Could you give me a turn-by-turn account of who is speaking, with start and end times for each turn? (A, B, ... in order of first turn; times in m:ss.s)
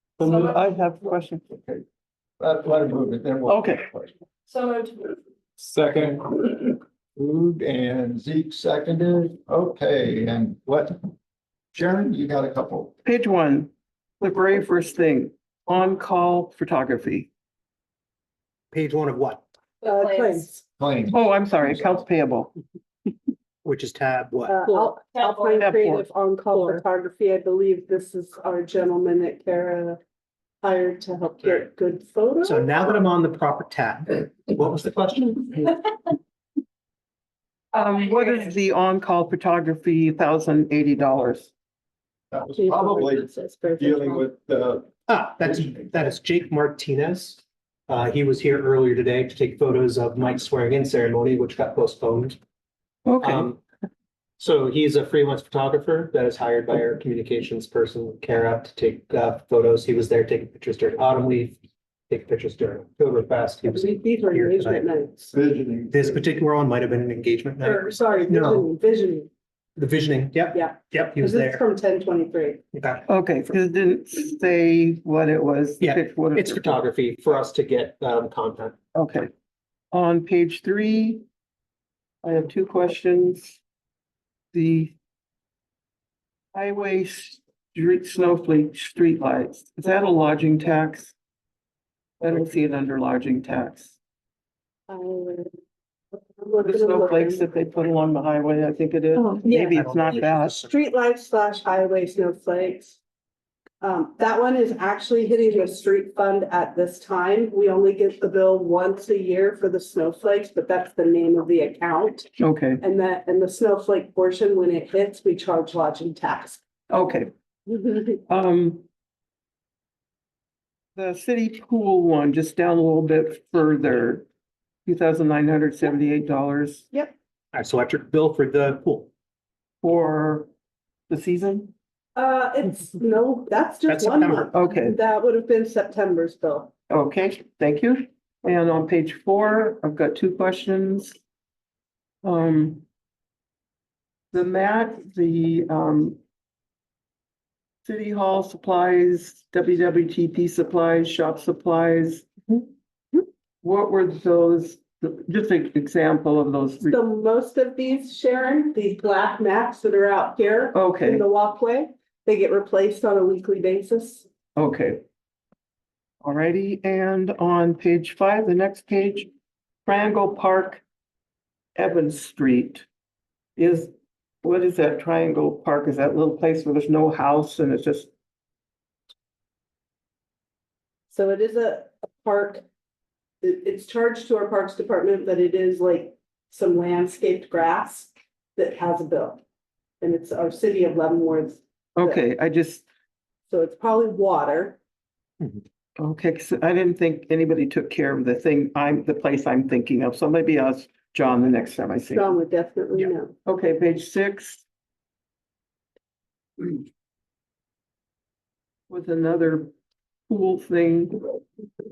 0:00.2-0:01.5 A
0:00.3-0:00.6 B
0:01.5-0:01.8 C
0:02.4-0:04.1 C
0:03.5-0:03.9 A
0:04.5-0:05.1 B
0:05.6-0:11.1 C
0:11.7-0:12.9 C
0:13.0-0:17.3 A
0:18.7-0:19.4 D
0:19.8-0:20.5 B
0:19.8-0:20.6 E
0:20.8-0:21.3 C
0:21.1-0:22.5 A
0:23.6-0:24.6 D
0:24.5-0:30.0 E
0:25.1-0:25.6 B
0:25.6-0:26.8 A
0:30.6-0:33.0 E
0:32.4-0:35.8 D
0:37.7-0:41.5 A
0:42.3-0:45.9 C
0:42.6-0:44.3 E
0:45.1-0:52.4 D
0:53.1-0:53.5 A
0:53.2-0:53.6 D
0:54.4-1:01.6 D
1:02.1-1:04.9 D
1:03.6-1:05.3 E
1:05.3-1:06.2 C
1:05.9-1:08.7 D
1:07.6-1:09.3 E
1:09.8-1:11.6 D
1:10.5-1:12.6 E
1:12.7-1:13.0 D
1:13.1-1:16.7 A
1:15.8-1:18.8 D
1:18.9-1:19.3 A
1:19.9-1:21.2 A
1:22.2-1:23.6 A
1:24.5-1:25.0 A
1:26.5-1:31.2 A
1:32.2-1:34.0 A
1:34.9-1:35.5 E
1:36.4-1:37.5 E
1:36.6-1:40.6 A
1:39.4-1:39.8 E
1:39.5-1:40.8 D
1:40.5-1:43.0 E
1:43.8-1:52.3 E
1:52.4-1:52.8 A
1:52.8-1:56.6 E
1:56.9-1:57.3 A
1:57.7-1:58.2 E
1:58.3-1:58.8 A
2:01.0-2:04.3 A
2:04.8-2:06.9 A
2:07.5-2:09.1 D
2:09.8-2:10.5 A
2:11.1-2:11.7 A
2:12.2-2:16.7 E
2:13.9-2:14.5 D
2:14.5-2:15.0 A
2:16.9-2:21.2 A
2:22.2-2:22.8 A
2:24.3-2:26.2 A
2:27.8-2:32.6 A
2:33.6-2:37.0 A
2:36.9-2:44.3 E
2:40.7-2:41.2 A
2:44.6-2:45.0 A
2:46.2-2:49.3 A
2:49.8-2:50.8 A
2:51.8-2:52.9 A
2:53.6-2:53.9 A
2:54.4-2:58.1 A
3:01.1-3:02.6 E
3:03.4-3:09.4 E
3:10.0-3:12.2 E
3:12.0-3:12.9 A
3:13.5-3:14.8 E
3:16.0-3:22.4 A
3:22.1-3:23.3 E
3:23.5-3:24.6 A
3:28.9-3:29.7 A
3:30.3-3:31.4 A